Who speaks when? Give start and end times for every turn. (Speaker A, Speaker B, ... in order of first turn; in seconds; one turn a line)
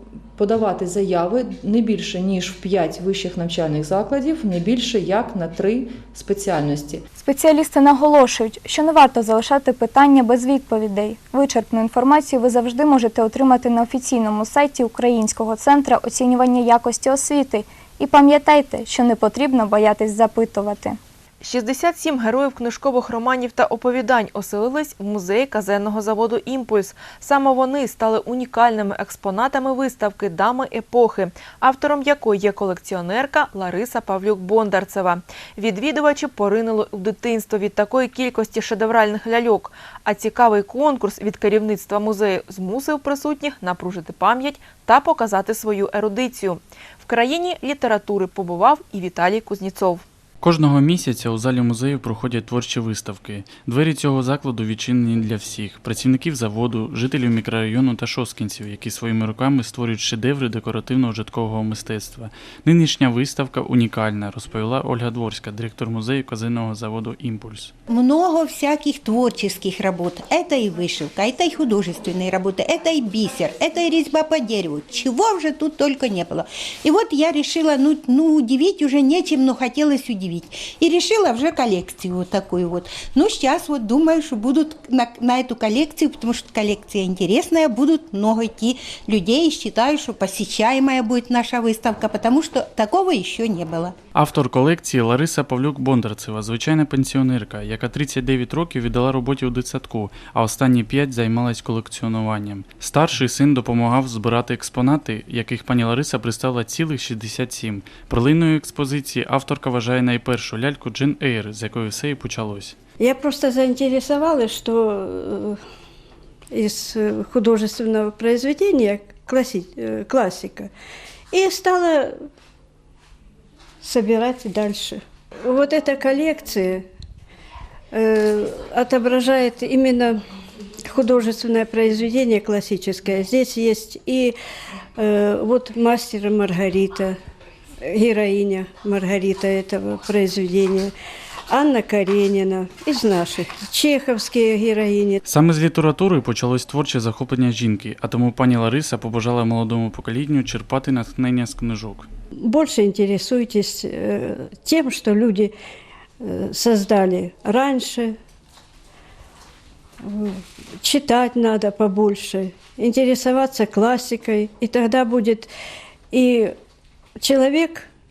Speaker A: 0.4-7.0
Speaker B: 7.2-21.0
Speaker C: 21.4-50.0
Speaker D: 50.4-67.7
Speaker E: 67.9-93.9
Speaker D: 94.2-112.8
Speaker F: 113.0-115.6
Speaker F: 116.5-120.7
Speaker F: 121.3-122.2
Speaker F: 123.8-126.9
Speaker F: 127.9-130.2
Speaker F: 130.9-134.4
Speaker F: 135.0-137.2
Speaker F: 137.8-140.9
Speaker F: 141.5-145.2
Speaker D: 145.3-152.1
Speaker F: 152.4-155.5
Speaker F: 156.2-158.1
Speaker F: 160.1-165.5
Speaker F: 166.1-166.5
Speaker F: 167.2-167.9